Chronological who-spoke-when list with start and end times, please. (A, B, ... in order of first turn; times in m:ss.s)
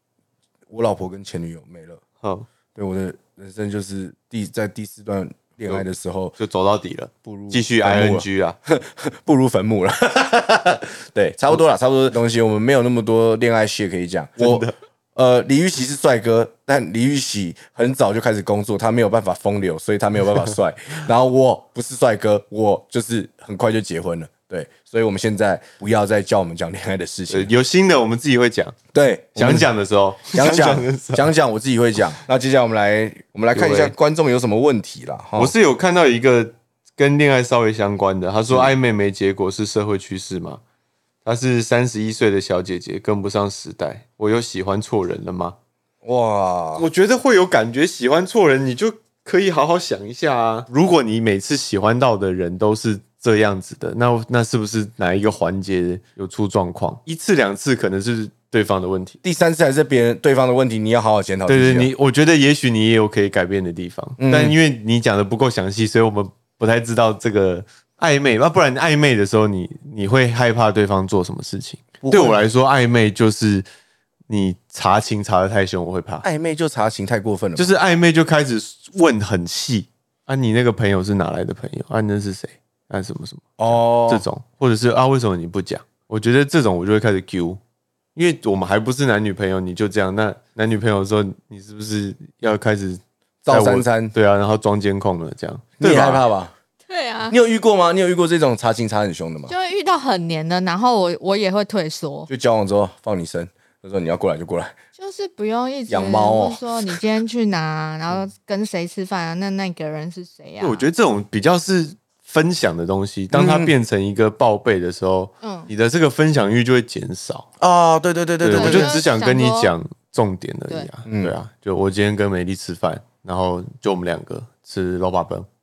0:00.7-0:02.0 A
0:02.2-0:02.5 B
0:02.7-0:06.4 A
0:06.4-0:08.6 B
0:07.2-0:27.5 A
0:14.4-0:14.7 B
0:27.3-0:28.8 B
0:28.9-0:29.7 A
0:29.4-0:31.3 B
0:30.3-0:35.5 A
0:33.5-0:33.9 B
0:35.4-0:40.6 B
0:38.5-0:38.7 A
0:41.2-0:45.6 B
0:46.0-0:46.8 A
0:46.8-0:59.2 B
0:59.2-1:01.9 A
1:01.5-1:13.7 B
1:04.2-1:04.6 A
1:12.0-1:12.4 A
1:14.3-1:16.2 B
1:16.2-1:17.7 A
1:17.6-1:27.6 B
1:23.6-1:24.2 A
1:28.1-1:36.2 B
1:33.4-1:34.1 A
1:35.8-1:36.5 A
1:36.9-1:37.4 C
1:37.3-1:39.5 A
1:39.5-1:42.3 C
1:42.3-1:44.8 A
1:45.0-1:50.8 C
1:45.9-1:47.0 A
1:50.6-1:57.5 B
1:53.3-1:53.7 A
1:55.4-1:55.7 C
1:57.6-1:59.0 A
1:58.4-2:05.5 B
1:58.5-1:59.7 C
2:01.0-2:01.3 A